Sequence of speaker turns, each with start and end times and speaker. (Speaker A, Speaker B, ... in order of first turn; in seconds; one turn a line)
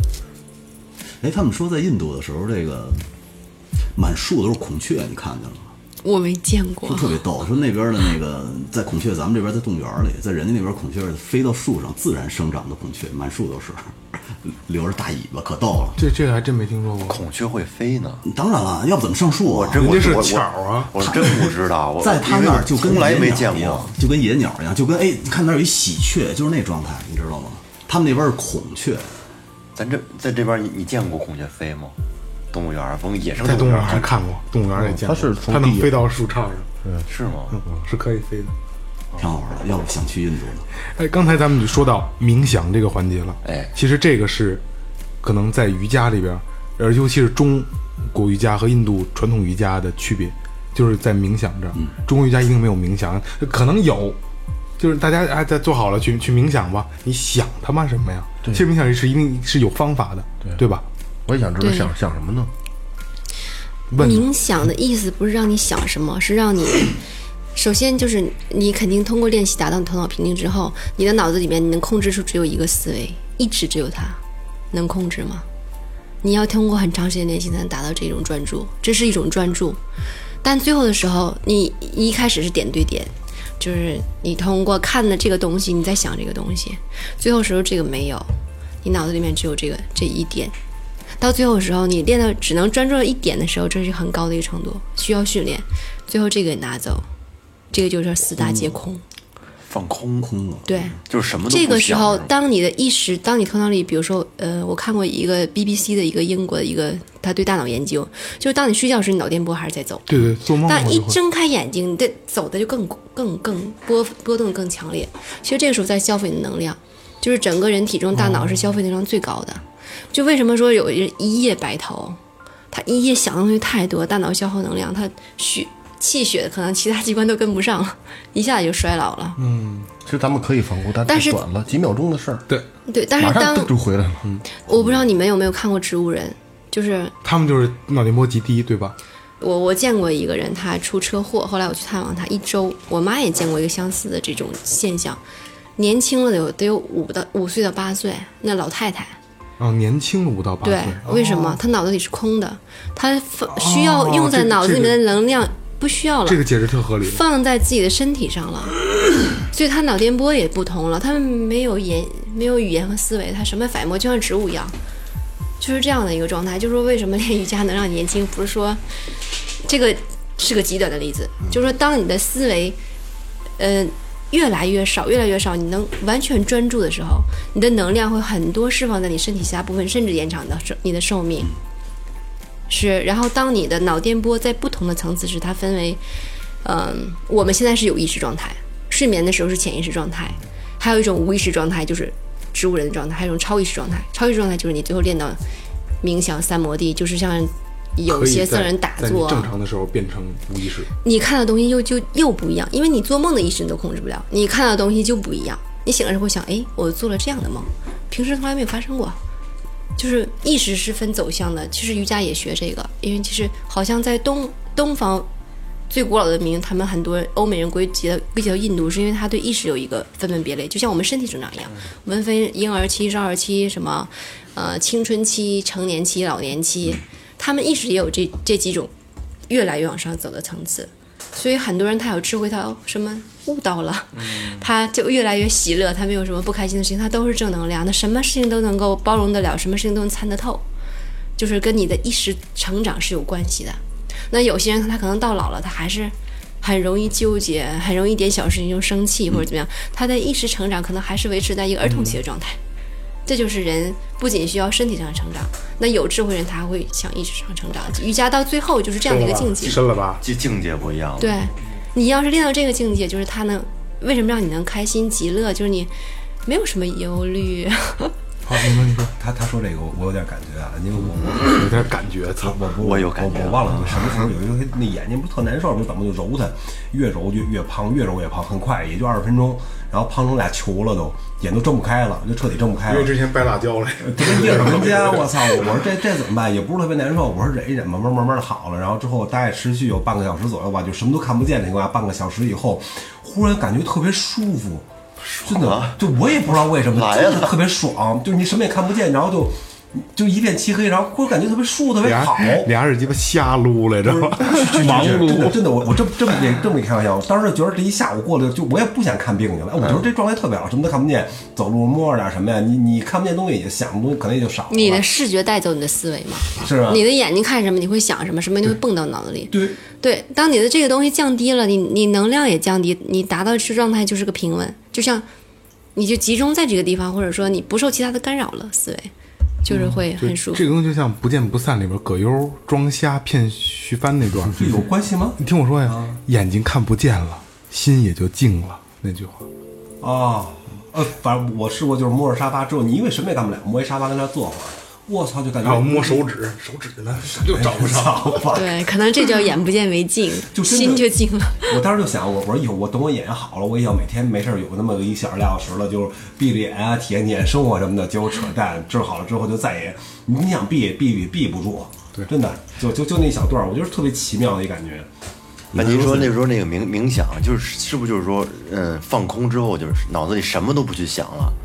Speaker A: 1.2-3.0
Speaker A: 4.0-5.7
Speaker B: 6.0-7.1
Speaker A: 6.8-16.0
Speaker C: 16.0-17.2
Speaker D: 17.1-18.2
Speaker A: 18.2-20.1
Speaker D: 19.4-23.9
Speaker C: 19.7-20.9
Speaker A: 21.0-29.1
Speaker D: 29.7-31.9
Speaker D: 32.5-34.1
Speaker C: 33.4-36.7
Speaker E: 34.8-36.0
Speaker D: 37.1-37.6
Speaker C: 37.5-38.5
Speaker A: 39.1-40.7
Speaker C: 40.9-44.6
Speaker D: 43.4-43.7
Speaker C: 45.2-54.2
Speaker C: 54.8-60.8
Speaker E: 61.3-62.5
Speaker B: 61.6-61.9
Speaker C: 63.9-64.3
Speaker B: 64.0-66.9
Speaker B: 67.5-74.2
Speaker B: 74.7-75.4
Speaker B: 76.2-79.8
Speaker B: 80.4-88.3
Speaker B: 88.8-90.5
Speaker B: 91.2-97.0
Speaker B: 97.7-99.0
Speaker A: 98.4-98.7
Speaker D: 99.7-100.3
Speaker A: 100.2-101.0
Speaker B: 100.7-101.0
Speaker D: 101.1-102.3
Speaker B: 101.5-110.1
Speaker C: 110.1-111.2
Speaker B: 110.6-122.2
Speaker C: 118.2-118.6
Speaker B: 122.7-129.4
Speaker C: 129.4-129.9
Speaker E: 130.0-132.4
Speaker B: 131.1-131.4
Speaker B: 132.9-133.7
Speaker E: 133.2-134.2
Speaker B: 134.7-137.1
Speaker C: 137.2-138.9
Speaker B: 139.4-145.2
Speaker B: 145.8-149.2
Speaker C: 149.6-151.6
Speaker B: 150.6-156.4
Speaker C: 153.5-155.0
Speaker C: 156.2-157.2
Speaker B: 157.0-158.8
Speaker B: 159.4-164.7
Speaker B: 165.6-168.8
Speaker B: 169.6-172.8
Speaker B: 173.6-181.5
Speaker B: 182.7-186.0
Speaker B: 186.6-195.4
Speaker B: 196.0-199.5
Speaker C: 198.1-200.9
Speaker B: 201.0-209.2
Speaker B: 210.0-215.3
Speaker B: 215.9-228.9
Speaker B: 229.5-240.6
Speaker D: 234.2-234.6
Speaker B: 241.4-252.6
Speaker C: 251.8-252.2
Speaker B: 253.2-259.8
Speaker C: 259.0-260.2
Speaker D: 259.7-261.4
Speaker B: 261.2-265.9
Speaker B: 266.4-268.1
Speaker C: 268.4-269.1
Speaker F: 269.2-283.2
Speaker C: 271.4-272.6
Speaker D: 272.8-273.7
Speaker C: 282.9-285.9
Speaker F: 284.0-294.9
Speaker F: 295.4-302.7
Speaker D: 295.5-296.0
Speaker D: 296.9-297.6
Speaker C: 302.0-305.6
Speaker F: 304.0-315.1
Speaker B: 314.7-325.2
Speaker F: 316.5-317.0
Speaker F: 319.5-319.8
Speaker B: 325.9-329.1
Speaker B: 329.6-330.6
Speaker C: 329.7-334.8
Speaker F: 334.5-336.2
Speaker C: 335.4-339.4
Speaker F: 340.0-346.3
Speaker C: 345.6-348.5
Speaker F: 347.2-348.8
Speaker B: 348.5-351.7
Speaker F: 350.5-365.1
Speaker A: 365.7-366.4
Speaker D: 365.7-371.6